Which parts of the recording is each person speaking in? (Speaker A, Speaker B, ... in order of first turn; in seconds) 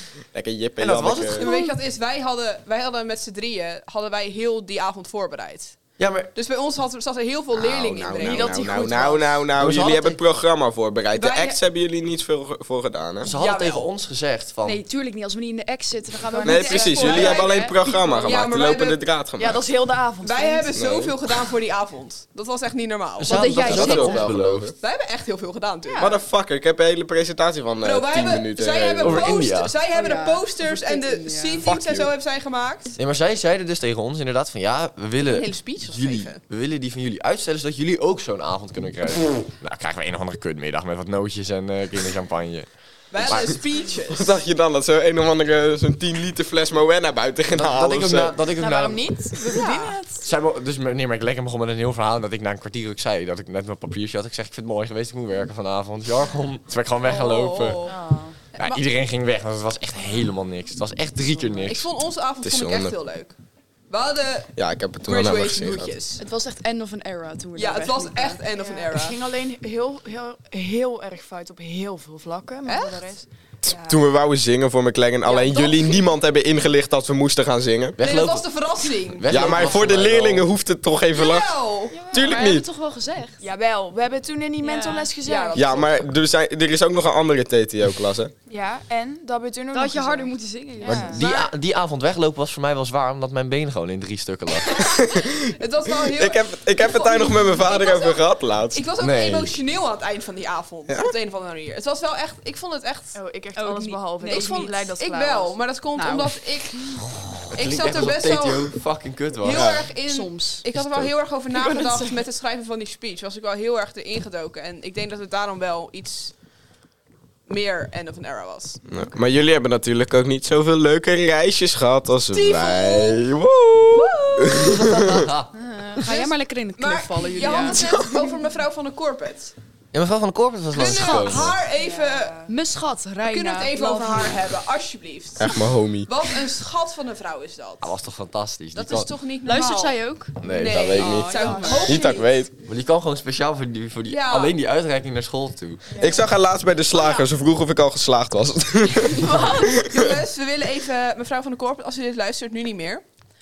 Speaker A: 0.3-1.4, 7.5-13.3, 16.4-19.6, 20.7-21.1, 23.6-24.7, 26.0-29.4, 31.6-32.1, 44.1-48.4, 62.4-62.9, 64.6-65.9, 73.6-78.0, 79.3-81.6, 82.1-82.7, 85.5-88.3, 94.8-98.8, 109.5-109.9, 118.9-123.6, 124.4-125.3, 135.4-136.1, 140.6-142.5, 146.0-149.9
Speaker B: 0.8-1.4, 6.0-6.3, 9.6-10.2, 13.2-14.8, 23.2-24.7, 29.0-29.7, 33.0-43.5, 47.5-49.1, 50.2-57.8, 58.6-61.9, 78.0-80.5, 90.8-94.9, 99.0-99.6, 107.1-109.8, 110.8-111.1, 124.5-125.5, 129.9-131.6, 137.8-139.1, 140.4-141.2, 142.6-145.8
Speaker C: 1.4-5.8, 6.3-8.6, 11.1-11.6, 13.3-13.9, 16.6-17.6, 18.2-19.0, 20.2-24.2, 24.8-26.2, 27.8-33.0, 35.2-36.4, 43.1-44.4, 49.5-50.0, 57.0-58.0, 58.5-58.8, 61.6-63.4, 63.9-64.5, 65.0-66.2, 67.5-69.2, 72.7-73.1, 75.2-76.1, 78.0-79.8, 81.1-82.0, 85.2-85.9, 94.8-103.2, 104.2-108.8, 109.4-116.3, 117.5-118.8, 122.3-123.2, 123.9-124.7, 126.0-129.5, 130.7-132.5, 133.2-137.9, 138.7-142.3, 144.1-144.5, 146.9-147.2, 149.8-153.0
Speaker D: 1.4-1.8, 14.6-18.2, 23.3-24.1, 25.9-26.1, 29.9-31.6, 66.2-68.4, 81.9-83.4, 84.6-85.1, 89.7-91.3, 103.5-104.7, 106.0-107.0, 110.0-110.6, 125.5-128.0, 130.9-131.4, 132.4-134.4, 139.4-140.4, 140.9-142.2, 149.2-149.8
Speaker E: 8.2-9.5, 16.2-17.2, 19.4-20.7, 48.6-50.3, 57.8-58.4, 68.6-73.2, 83.4-85.9, 88.5-91.3, 103.1-105.6, 111.5-112.2, 131.8-132.3